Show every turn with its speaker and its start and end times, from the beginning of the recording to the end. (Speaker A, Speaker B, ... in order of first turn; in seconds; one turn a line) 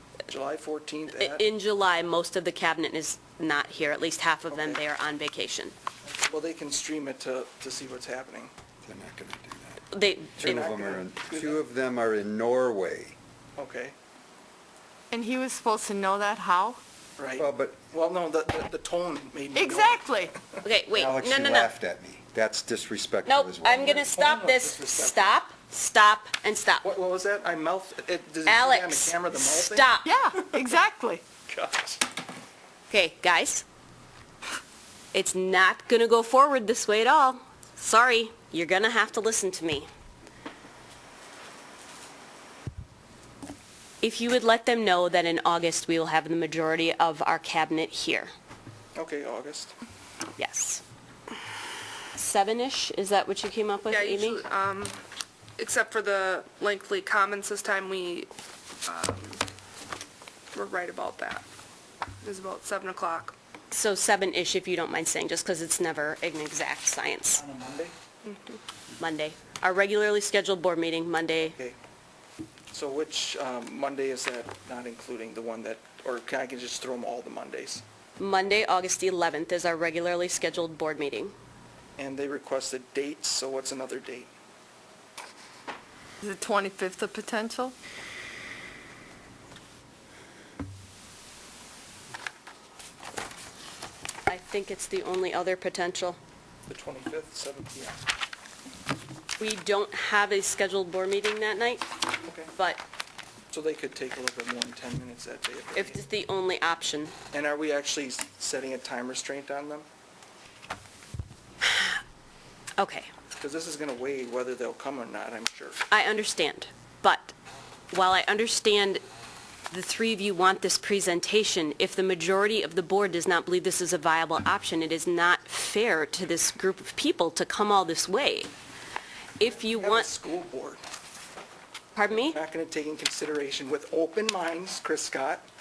Speaker A: 0.3-1.4
Speaker B: 1.1-5.7
Speaker A: 4.5-4.8
Speaker A: 6.2-8.5
Speaker C: 8.8-9.8
Speaker B: 9.9-10.7
Speaker C: 10.4-13.2
Speaker A: 10.4-11.6
Speaker A: 13.6-13.9
Speaker D: 15.1-16.8
Speaker A: 17.2-20.2
Speaker C: 17.4-17.8
Speaker D: 19.5-20.3
Speaker B: 20.6-21.7
Speaker C: 20.9-24.1
Speaker B: 23.2-26.9
Speaker A: 24.0-25.4
Speaker A: 26.8-30.6
Speaker B: 28.4-30.1
Speaker D: 30.0-31.2
Speaker A: 31.4-32.0
Speaker B: 32.9-33.6
Speaker B: 35.1-39.9
Speaker B: 44.0-48.3
Speaker A: 48.9-49.7
Speaker B: 50.4-50.8
Speaker B: 52.1-54.4
Speaker E: 53.9-55.0
Speaker E: 55.6-58.3
Speaker E: 58.8-59.4
Speaker E: 60.5-61.4
Speaker E: 62.2-63.3
Speaker B: 63.7-67.4
Speaker A: 67.3-67.9
Speaker E: 68.2-68.6
Speaker B: 69.0-71.5
Speaker A: 71.4-71.8
Speaker A: 72.7-77.8
Speaker B: 78.2-81.3
Speaker A: 82.0-84.3
Speaker D: 86.2-87.8
Speaker B: 94.3-96.2
Speaker A: 96.7-98.0
Speaker B: 99.4-101.9
Speaker A: 102.2-102.5
Speaker B: 102.5-102.8
Speaker A: 103.5-106.0
Speaker B: 105.7-107.1
Speaker A: 107.3-109.8
Speaker B: 111.6-112.0
Speaker B: 112.8-113.1
Speaker A: 113.4-115.8
Speaker B: 115.9-117.3
Speaker B: 117.9-119.0
Speaker B: 119.7-128.5
Speaker B: 129.4-130.1
Speaker A: 129.6-130.8
Speaker B: 131.9-132.4
Speaker A: 132.1-135.4